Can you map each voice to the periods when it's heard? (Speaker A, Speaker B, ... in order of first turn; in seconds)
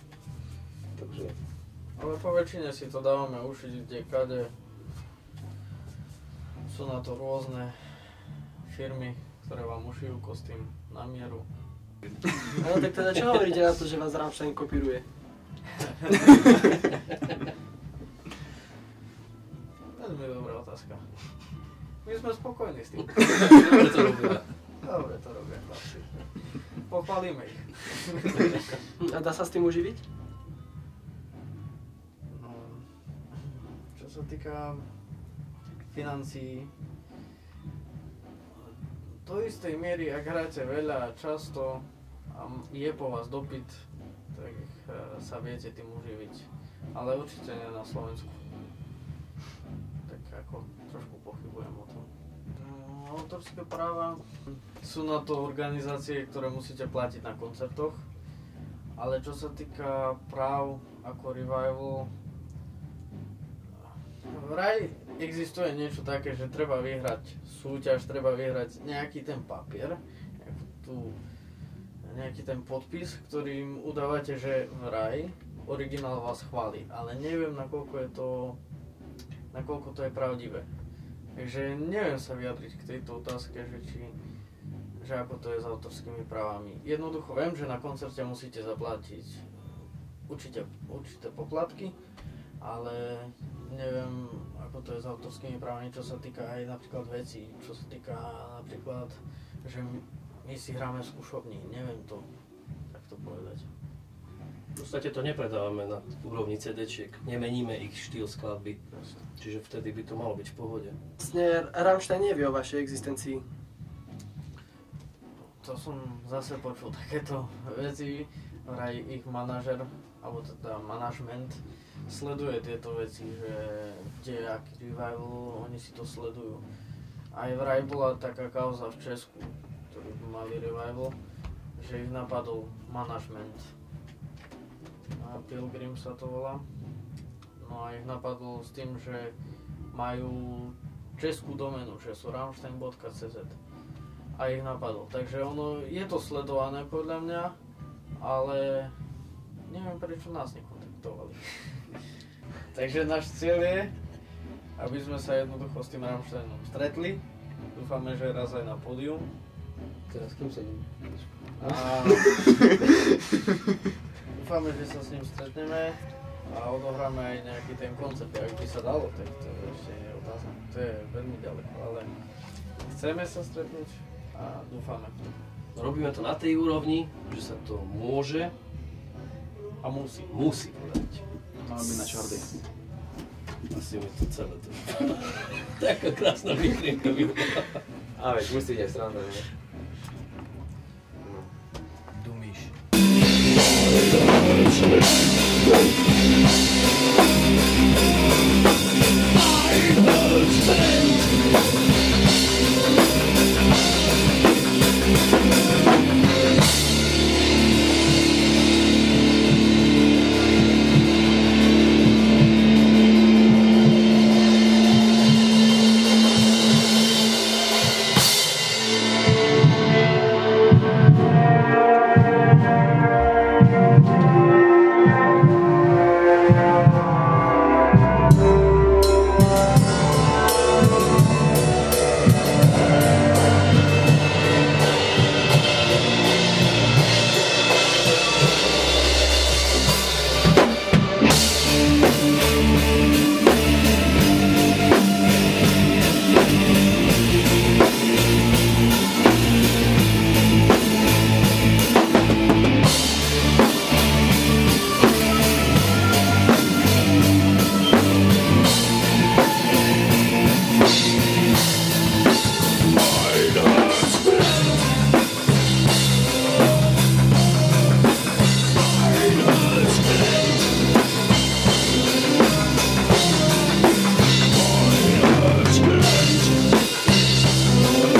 Speaker A: 0.9-1.4, 188.1-189.5, 191.2-191.5
Speaker B: 2.0-4.5, 6.7-11.5, 19.9-21.1, 22.0-23.6, 24.8-28.6, 32.3-34.9, 35.9-36.7, 39.2-48.4, 50.0-58.0, 59.0-62.1, 64.2-71.2, 72.0-78.6, 79.5-80.7, 81.3-84.2, 85.0-89.5, 90.3-92.0, 92.6-102.3, 102.9-103.7, 108.9-109.2, 115.6-126.6, 127.3-131.1, 131.8-133.7, 135.2-136.7, 137.6-139.3, 139.9-143.6, 144.3-147.6, 148.2-148.9, 149.6-152.0, 152.7-153.9, 154.8-159.3, 161.6-162.4, 164.3-172.1, 172.8-175.3, 179.8-180.4
Speaker C: 12.5-15.1, 29.0-30.0, 111.2-113.4, 160.2-160.7
Speaker D: 23.4-24.4, 104.7-108.8, 109.4-111.0, 175.7-178.5, 180.3-181.2, 183.7-187.8, 192.2-192.7, 193.8-194.9, 199.4-201.3, 262.9-264.4, 269.0-270.3, 274.7-276.1